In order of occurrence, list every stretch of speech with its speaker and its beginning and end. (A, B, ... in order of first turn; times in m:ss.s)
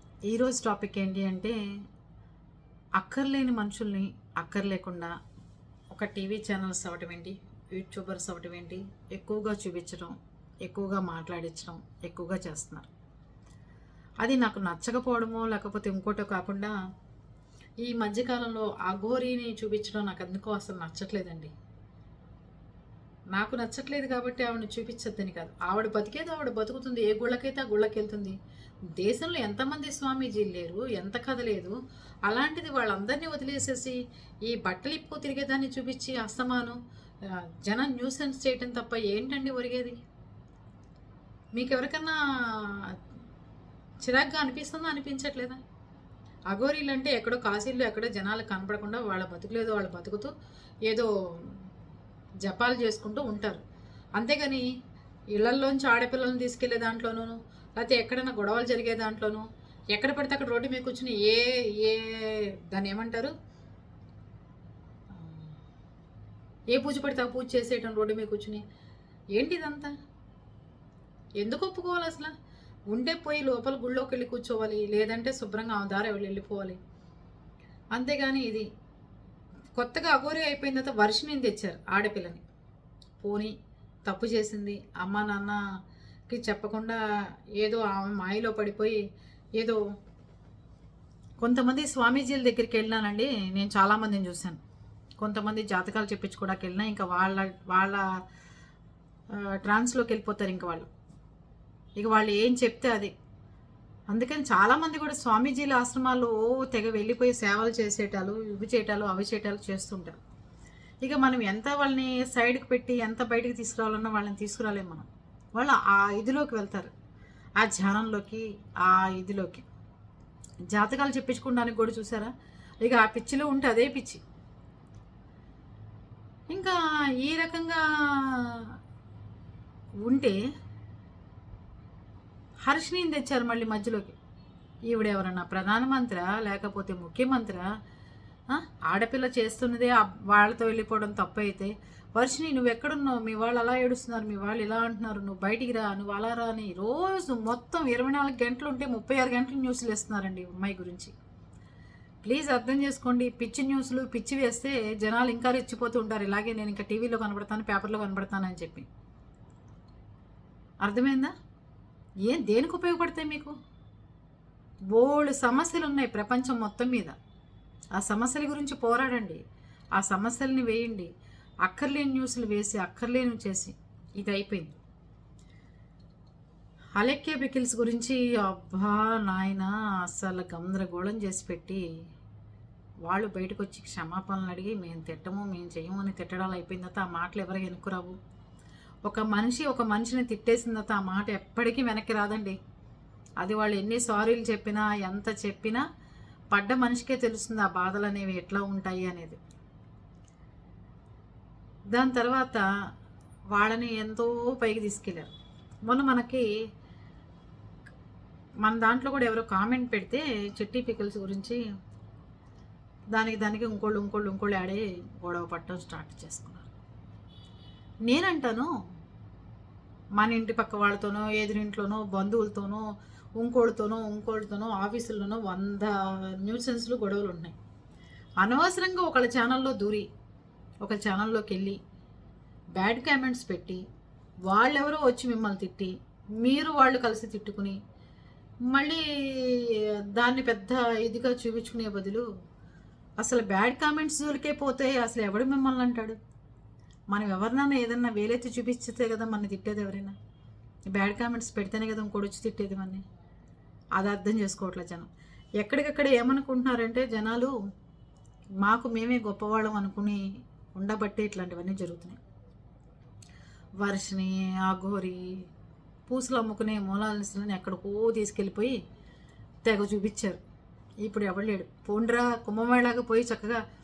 0:00.3-0:01.6 A
0:03.0-0:05.1 A
0:05.9-0:12.9 A
0:14.2-0:16.7 A
0:17.8-0:21.5 A
0:23.3-0:28.4 A
0:29.0-0:31.7 A
0:32.3-0:40.0 A
0:41.5-0:43.0 A
0:44.0-0:45.6 A
0:46.5-0:50.3 A
0:50.9-0:51.6 A
0:52.4-0:53.6 A
0:54.2-0:54.7 A
0:55.3-1:03.3 A
1:05.1-1:05.5 A
1:06.7-1:08.6 A
1:09.4-1:09.9 A
1:11.4-1:12.3 A
1:12.9-1:16.8 A
1:17.9-1:18.7 A
1:19.8-1:22.4 A
1:23.2-1:23.5 A
1:24.0-1:25.6 A
1:26.3-1:27.0 A
1:27.6-1:29.0 A
1:31.4-1:34.6 A
1:35.2-1:38.0 A
1:39.4-1:40.9 A
1:42.0-1:43.1 A
1:44.1-1:50.2 A
1:51.0-1:56.9 A
1:57.6-1:59.7 A
2:00.7-2:02.3 A
2:02.8-2:04.2 A
2:06.5-2:08.7 A
2:10.0-2:10.4 A
2:12.7-2:14.2 A
2:14.9-2:17.6 A
2:18.5-2:31.1 A
2:32.2-2:38.9 A
2:40.8-2:41.3 A
2:42.2-2:43.5 A
2:44.9-2:47.1 A
2:48.0-2:49.4 A
2:50.0-2:51.1 A
2:51.6-2:54.7 A
2:57.0-3:01.8 A
3:03.1-3:08.2 A
3:09.1-3:12.6 A
3:13.4-3:15.8 A
3:16.5-3:19.4 A
3:21.9-3:22.6 A
3:23.5-3:25.3 A
3:25.9-3:26.4 A
3:28.6-3:31.6 A
3:33.1-3:36.7 A
3:38.1-3:38.7 A
3:40.2-3:42.8 A
3:43.4-3:47.5 A
3:48.4-3:50.1 A
3:50.8-3:51.8 A
3:52.8-3:53.8 A
3:54.5-3:57.8 A
3:58.7-4:02.3 A
4:03.2-4:06.2 A
4:07.1-4:10.2 A
4:10.9-4:13.0 A
4:14.0-4:15.1 A
4:15.6-4:17.5 A
4:18.6-4:20.2 A
4:20.7-4:22.2 A
4:23.8-4:25.2 A
4:26.1-4:28.8 A
4:29.6-4:30.4 A
4:31.0-4:33.6 A